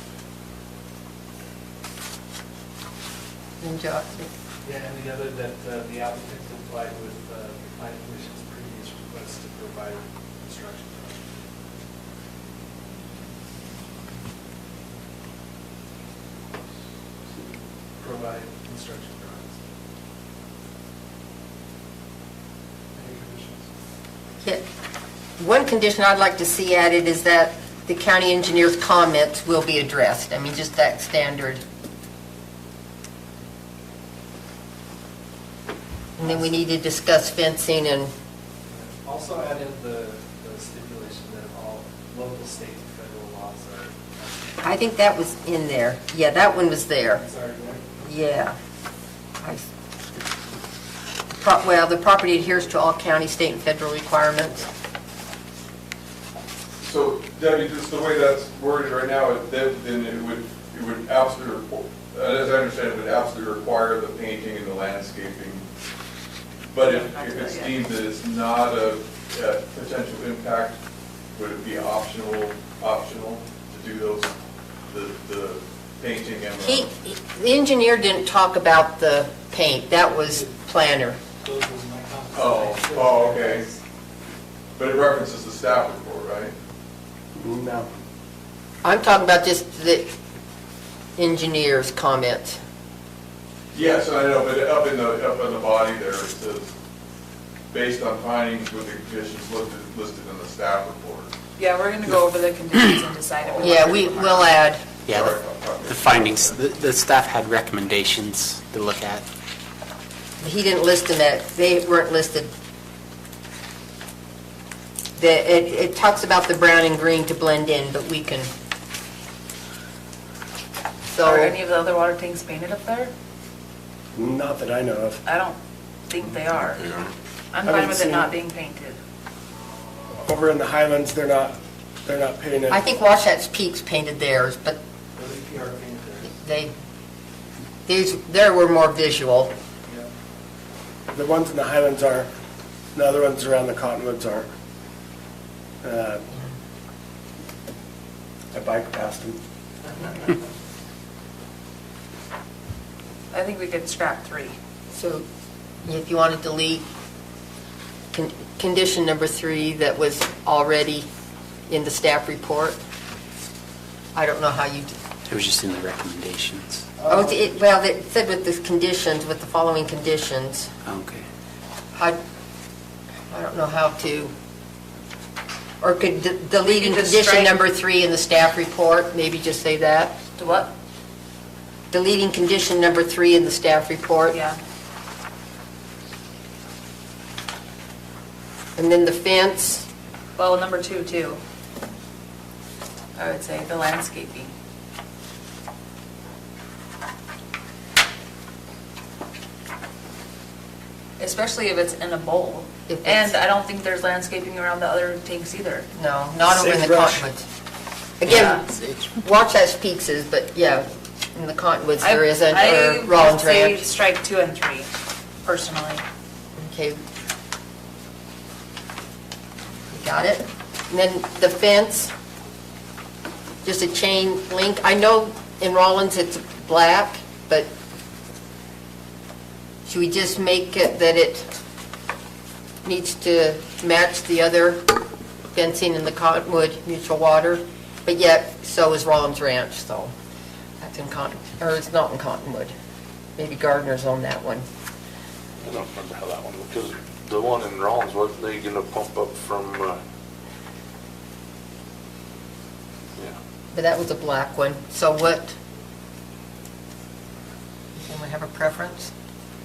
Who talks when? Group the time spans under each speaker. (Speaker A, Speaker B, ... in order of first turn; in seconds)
Speaker A: 3.6-4.3, 25.4-31.6, 36.2-38.1, 44.6-47.2, 48.0-48.5, 49.4-49.7, 51.4-54.7, 76.6-81.2, 88.8-90.1, 91.2-92.6, 103.6-104.8, 110.4-112.5, 115.2-118.5, 121.1-121.5, 132.7-134.8, 136.2-136.7, 137.9-139.5, 154.9-155.2, 155.9-156.8, 158.1-161.1, 161.7-162.8, 164.2-164.9, 167.1-170.7, 173.3-174.3, 175.8-180.1, 181.9-184.4, 188.8-189.9, 202.9-203.3, 205.9-207.4, 208.2-208.7, 209.2-213.8, 216.6-217.0, 219.9-222.1, 223.6-227.7, 229.9-231.5, 232.8-234.9, 235.5-240.1, 240.8-242.7, 243.4-244.7, 253.7-255.6, 257.9-259.1
Speaker B: 4.6-11.3, 17.3-19.6, 22.9-23.7, 36.2-36.5, 38.7-44.6, 47.2-47.9, 81.4-83.8, 135.2-136.3
Speaker C: 56.8-65.6, 66.7-70.8, 71.3-74.3, 74.9-76.9, 82.3-83.7, 84.8-86.5, 93.7-96.7, 97.7-101.3, 103.7-103.9, 105.1-106.6
Speaker D: 66.8-67.8, 101.6-104.6, 121.2-123.1, 125.2-125.6, 126.1-126.9, 127.5-129.0, 153.3-154.6, 176.7-177.6, 180.4-180.7, 184.3-184.6, 190.4-191.4, 193.2-194.5, 201.2-205.9, 208.3-208.6, 212.0-214.9, 215.4-216.0
Speaker E: 87.3-87.9, 124.1-125.2, 127.7-128.3, 130.2-132.8, 141.1-142.3, 142.9-144.5, 145.8-146.3, 148.5-149.4, 206.5-207.3
Speaker F: 105.1-109.2, 165.3-166.9, 170.8-171.2
Speaker G: 245.6-250.0